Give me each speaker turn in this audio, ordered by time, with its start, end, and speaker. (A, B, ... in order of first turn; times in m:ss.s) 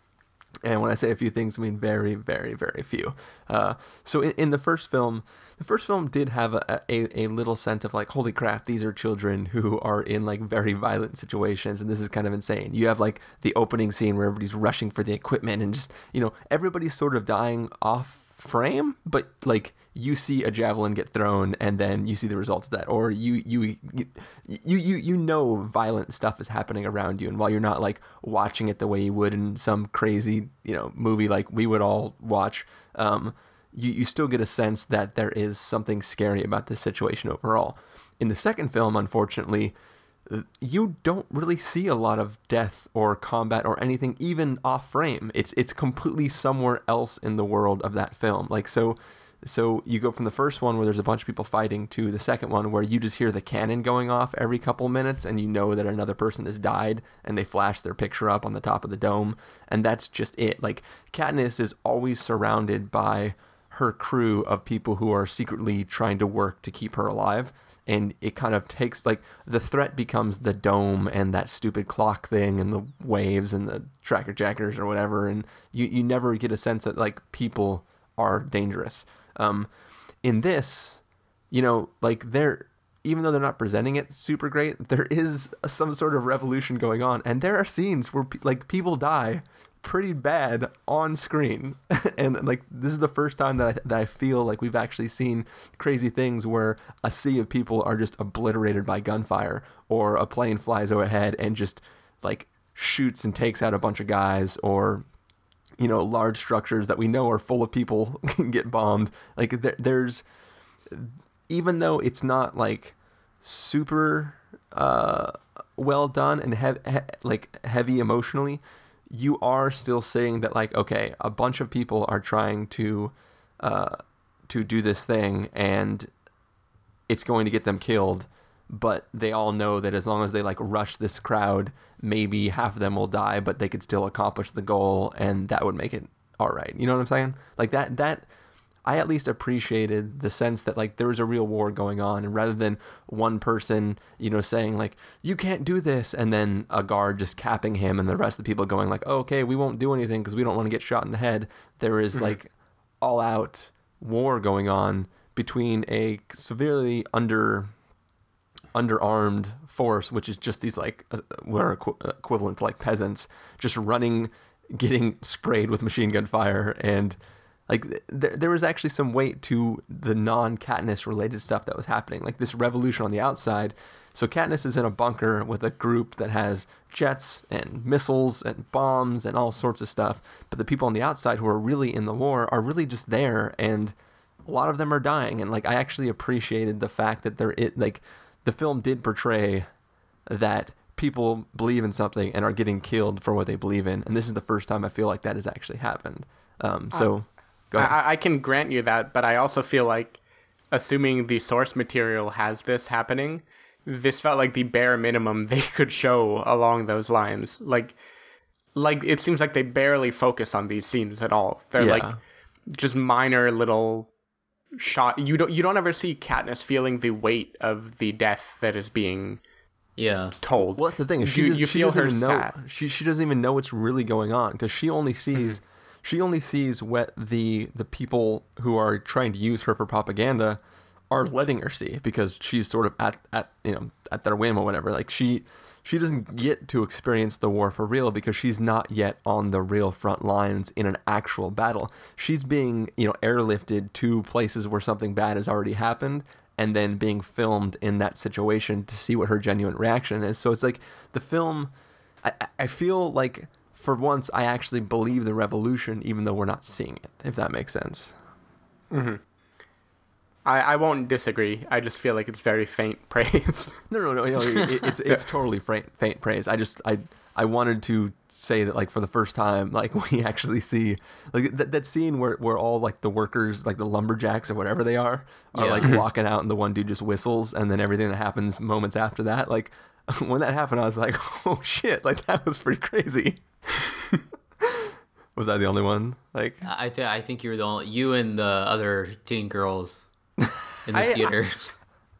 0:00.6-0:39.7 A
0:40.3-1:19.7 A
1:20.2-1:45.0 A
1:45.8-1:50.2 A
1:50.9-2:06.1 A
2:07.1-2:18.2 A
2:18.8-2:37.7 A
2:38.7-3:09.7 A
3:10.3-3:18.0 A
3:17.7-3:20.2 B
3:20.7-3:28.0 B
3:28.7-3:32.2 B
3:31.8-3:32.2 A
3:32.7-3:34.1 B
3:34.8-3:39.4 B
3:40.0-3:40.3 C
3:40.4-3:42.5 B
3:40.6-4:18.1 A
4:18.9-4:19.2 B
4:20.4-4:23.8 B
4:23.9-4:43.4 A
4:35.5-4:35.9 C
4:44.6-4:46.6 A
4:46.6-4:50.0 C
4:50.8-4:51.7 C
4:50.9-4:51.4 B